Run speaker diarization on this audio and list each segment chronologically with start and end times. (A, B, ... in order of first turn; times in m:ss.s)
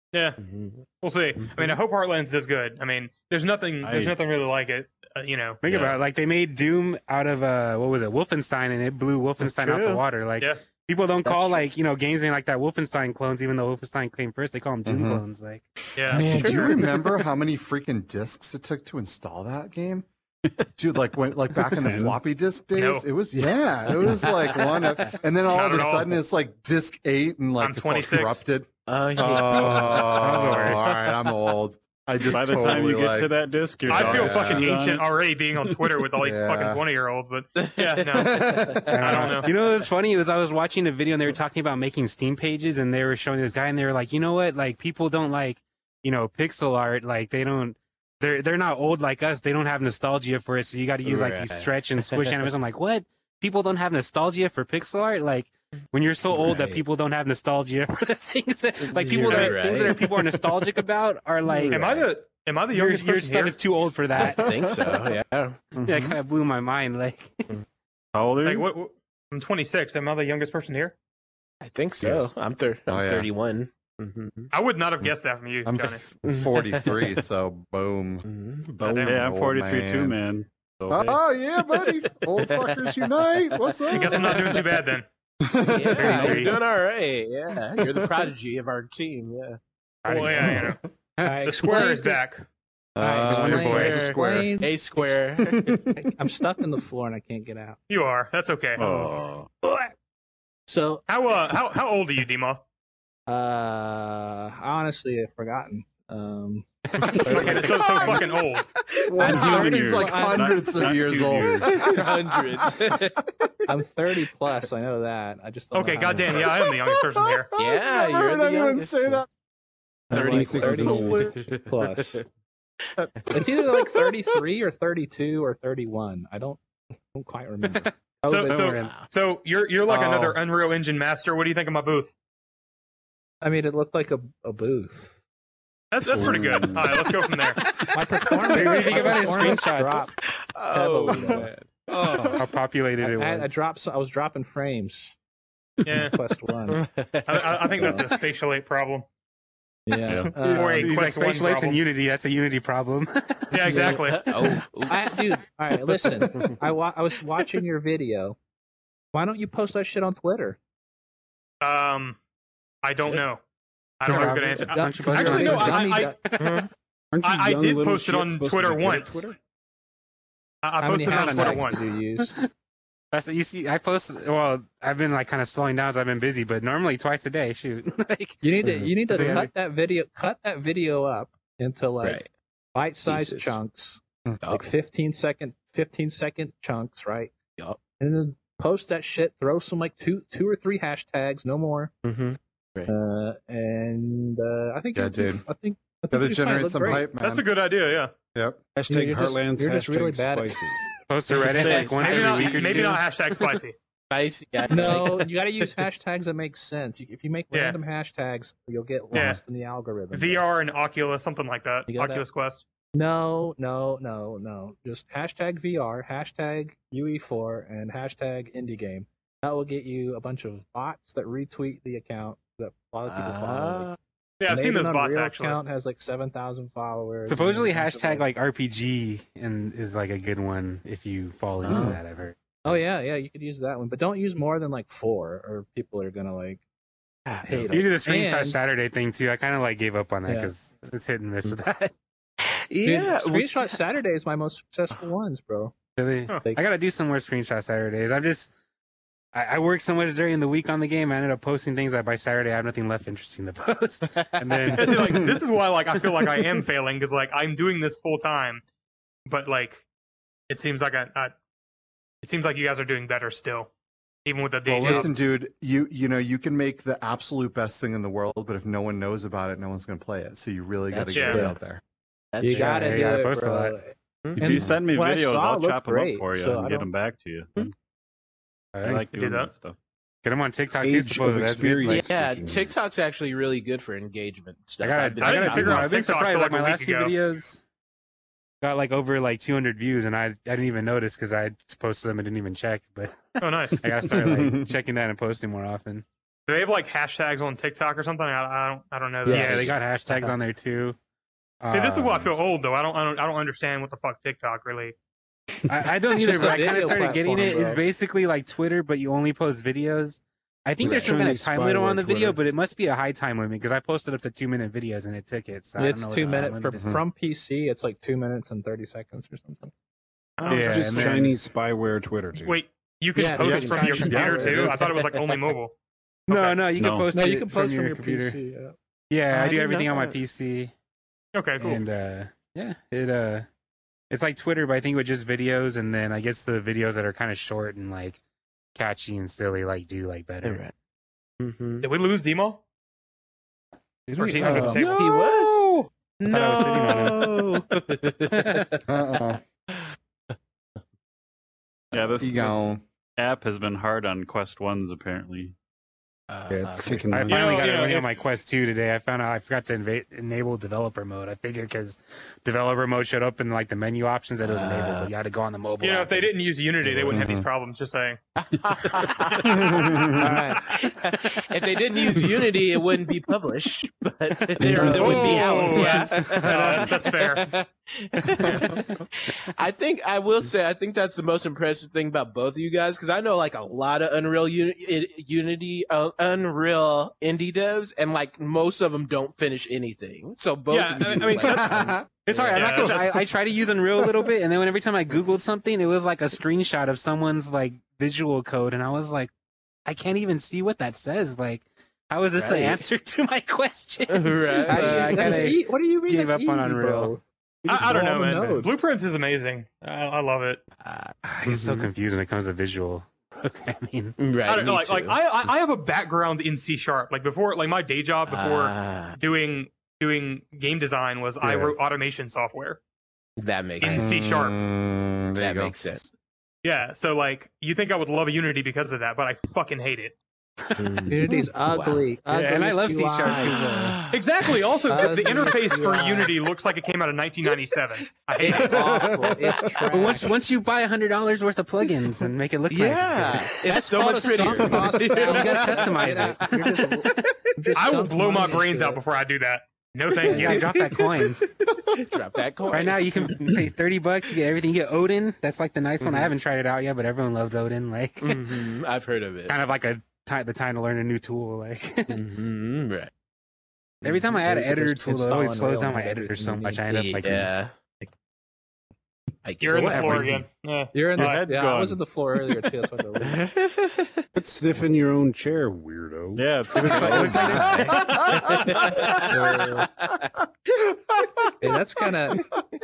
0:00.1-0:00.4 A
0:00.4-0:00.8 B
0:01.0-0:05.6 A
0:01.4-0:01.6 B
0:03.8-0:04.2 C
0:05.6-0:15.6 D
0:05.6-0:06.0 C
0:09.6-0:10.6 A
0:11.2-0:11.6 B
0:14.8-0:15.2 E
0:16.0-0:16.3 A
0:16.0-0:20.1 E
0:16.1-0:17.1 B
0:20.8-0:33.3 E
0:21.7-0:22.2 F
0:22.7-0:23.1 A
0:24.0-0:25.2 B
0:25.4-0:26.2 A
0:27.6-0:28.4 A
0:28.9-0:30.3 B
0:29.6-0:31.1 D
0:32.3-0:35.9 C
0:33.9-0:34.7 E
0:33.9-0:39.5 A
0:36.2-0:36.8 E
0:37.6-0:39.3 B
0:38.1-0:38.9 E
0:38.9-1:02.0 D
0:51.0-0:52.4 B
0:56.3-0:56.8 B
0:58.8-1:00.2 B
1:01.7-1:03.6 A
1:01.7-1:02.0 B
1:02.7-1:04.6 D
1:04.2-1:05.7 B
1:04.2-1:05.1 E
1:05.8-1:07.5 D
1:05.8-1:06.1 E
1:08.1-1:08.7 C
1:08.4-1:11.0 A
1:11.6-1:14.5 B
1:12.0-1:12.3 E
1:12.9-1:13.3 E
1:14.5-1:16.0 A
1:15.6-1:18.2 E
1:16.2-1:17.0 B
1:18.2-1:18.8 B
1:18.8-1:20.2 E
1:18.8-1:19.2 A
1:19.1-1:21.2 C
1:20.9-1:24.6 E
1:21.7-1:24.7 B
1:23.9-1:25.0 A
1:25.4-1:26.5 E
1:25.7-1:29.6 B
1:25.9-1:26.6 D
1:30.0-1:30.7 D
1:30.0-1:30.8 A
1:30.4-1:30.8 E
1:31.2-1:32.2 G
1:31.3-1:32.5 A
1:32.9-1:34.5 E
1:33.0-1:35.1 G
1:33.1-1:34.2 D
1:33.7-1:35.8 B
1:35.4-1:36.0 E
1:35.9-1:37.8 G
1:37.9-1:38.8 A
1:38.8-1:39.5 C
1:38.8-1:39.9 G
1:40.7-1:41.0 G
1:41.1-1:42.6 A
1:43.3-1:46.7 G
1:46.9-1:48.2 D
1:47.0-1:48.2 E
1:47.1-1:47.8 B
1:47.2-1:48.7 A
1:48.8-1:49.2 B
1:49.0-1:53.0 E
1:49.2-1:51.0 G
1:49.2-1:51.8 C
1:51.7-1:53.2 B
1:53.7-1:56.5 G
1:55.7-1:57.5 A
1:56.1-1:56.4 B
1:57.5-1:59.2 B
1:57.5-1:59.2 E
2:00.1-2:02.2 G
2:00.1-2:01.3 F
2:00.1-2:02.2 B
2:00.8-2:01.4 E
2:03.2-2:04.1 B
2:03.3-2:08.8 G
2:08.2-2:12.1 A
2:08.4-2:09.0 D
2:09.9-2:10.4 E
2:13.4-2:15.2 G
2:15.9-2:17.6 A
2:16.0-2:17.1 C
2:17.6-2:21.7 B
2:17.9-2:20.1 G
2:18.5-2:20.1 D
2:20.7-2:22.4 G
2:22.1-2:23.6 D
2:23.0-2:25.1 G
2:25.8-2:26.2 A
2:25.9-2:26.9 G
2:26.7-2:28.2 B
2:27.3-2:29.0 A
2:27.8-2:28.0 G
2:29.8-2:30.9 G
2:30.1-2:30.3 C
2:30.4-2:31.8 A
2:30.5-2:33.7 D
2:33.5-2:34.4 A
2:33.6-2:36.6 B
2:33.7-2:38.4 G
2:39.1-2:40.6 G
2:41.6-2:42.2 A
2:42.8-2:43.4 A
2:44.0-2:46.6 A
2:44.0-2:46.6 D
2:44.0-2:46.3 G
2:46.4-2:46.7 B
2:47.1-2:49.4 F
2:47.2-2:49.2 A
2:50.6-2:51.9 A
2:50.8-2:52.4 G
2:51.0-2:52.5 D
2:53.1-2:59.5 D
2:58.4-3:02.2 G
2:58.6-2:59.4 B
3:02.0-3:02.3 B
3:02.7-3:07.3 G
3:03.0-3:03.6 B
3:04.4-3:04.7 B
3:08.0-3:11.9 G
3:12.0-3:12.9 B
3:12.9-3:17.1 G
3:14.9-3:15.4 E
3:16.1-3:17.4 E
3:17.2-3:18.1 A
3:18.3-3:18.6 E
3:18.7-3:20.8 F
3:18.9-3:20.6 G
3:21.1-3:23.5 D
3:21.3-3:22.7 B
3:21.3-3:22.8 C
3:22.0-3:23.8 A
3:24.1-3:25.7 B
3:24.7-3:30.4 G
3:27.5-3:27.8 A
3:29.1-3:29.4 A
3:30.1-3:32.6 A
3:31.9-3:32.2 G
3:32.9-3:43.9 G
3:43.0-3:44.0 B
3:44.4-3:45.6 A
3:44.5-3:48.2 G
3:47.3-3:52.4 D
3:51.6-3:52.0 B
3:52.6-3:56.6 G
3:57.2-3:57.8 B
3:57.4-3:58.6 G
3:57.7-4:01.9 D
4:00.2-4:00.5 G
4:02.4-4:03.8 B
4:02.8-4:05.7 G
4:06.0-4:08.5 D
4:09.3-4:15.3 D
4:14.0-4:14.9 B
4:14.7-4:18.6 A
4:16.0-4:16.6 D
4:19.2-4:19.8 A
4:20.5-4:21.3 A
4:22.2-4:23.7 A
4:24.2-4:25.1 A
4:24.6-4:31.8 E
4:30.9-4:31.6 B
4:31.1-4:31.4 A
4:32.3-4:33.0 B
4:32.4-4:36.9 G
4:32.5-4:33.7 D
4:34.2-4:34.6 B
4:34.4-4:37.7 C
4:38.7-4:39.1 D
4:38.8-4:39.8 C
4:39.1-4:39.5 A
4:40.2-4:42.1 D
4:40.8-4:42.7 F
4:41.8-4:45.9 B
4:44.8-4:47.6 D
4:45.2-4:47.2 A
4:48.6-4:56.0 D
4:53.4-4:53.9 A
4:54.1-4:54.7 E
4:56.5-4:59.8 A
4:59.2-5:00.3 G
4:59.2-5:01.0 D
5:01.6-5:02.3 D
5:01.7-5:05.0 A
5:05.6-5:16.9 D
5:06.1-5:07.8 G
5:10.8-5:12.4 F
5:10.8-5:11.1 E
5:15.8-5:19.7 G
5:20.4-5:21.3 A
5:20.5-5:21.3 D
5:20.5-5:22.6 F
5:22.3-5:25.7 A
5:23.2-5:24.8 G
5:23.4-5:24.9 E
5:24.9-5:25.5 B
5:26.3-5:26.6 A
5:26.3-5:28.4 D
5:26.8-5:27.1 C
5:27.1-5:28.7 G
5:29.1-5:30.7 D
5:29.3-5:30.2 B
5:31.3-5:31.8 A
5:31.6-5:33.5 D
5:34.1-5:38.2 D
5:38.7-5:40.6 D
5:40.4-5:40.7 B
5:41.4-5:41.8 B
5:41.8-5:42.6 A
5:44.1-5:45.0 D
5:44.1-5:45.9 A
5:44.8-5:45.6 B
5:46.2-5:49.9 B
5:46.2-5:47.6 D
5:48.3-5:48.7 D
5:48.9-5:49.4 E
5:51.9-5:55.5 C
5:52.2-5:52.8 E
5:56.3-5:57.2 B
5:56.5-5:57.4 F
5:57.1-6:06.3 D
5:57.3-5:58.2 A
6:04.4-6:05.1 B
6:05.8-6:08.2 A
6:06.9-6:07.4 E
6:08.4-6:32.8 B
6:09.5-6:10.3 E
6:09.6-6:10.1 A
6:10.1-6:10.6 G
6:14.8-6:15.3 G
6:14.8-6:17.5 A
6:15.1-6:17.0 D
6:30.7-6:31.8 A
6:31.4-6:32.0 E
6:32.2-6:39.3 D
6:32.4-6:33.2 A
6:39.8-6:47.1 D
6:42.3-6:42.8 B
6:44.1-6:45.5 B
6:44.7-6:48.7 G
6:47.6-6:50.6 A
6:50.8-6:51.9 B
6:51.2-6:54.1 D
6:54.2-6:55.2 B
6:54.4-7:02.8 A
6:58.3-6:59.2 B
7:03.4-7:04.1 B
7:03.8-7:04.6 A
7:03.8-7:06.1 E
7:05.4-7:06.0 B
7:06.6-7:10.2 A
7:10.8-7:12.1 B
7:11.1-7:13.7 G
7:12.3-7:14.0 D
7:13.3-7:14.5 B
7:14.1-7:18.9 A
7:14.9-7:16.4 G
7:18.4-7:20.4 G
7:18.5-7:19.9 E
7:19.9-7:23.8 D
7:22.7-7:27.7 B
7:23.7-7:29.0 G
7:25.1-7:27.2 D
7:27.7-7:30.7 A
7:30.2-7:33.7 B
7:30.2-7:31.4 D
7:32.7-7:38.6 D
7:36.0-7:36.3 B
7:38.2-7:39.6 B
7:39.5-7:42.2 D
7:42.1-7:43.1 B
7:44.0-7:46.8 G
7:44.0-7:47.5 D
7:46.9-7:48.1 B
7:49.4-7:50.4 B
7:49.6-7:51.4 A
7:49.7-7:50.4 D
7:50.9-7:53.4 G
7:51.2-7:52.0 C
7:53.2-7:54.2 B
7:54.3-7:58.0 F
7:56.4-7:57.6 C
7:56.7-7:58.0 D
7:56.8-8:00.3 B
7:57.9-7:59.0 A
7:59.3-7:59.9 G
8:01.6-8:02.4 G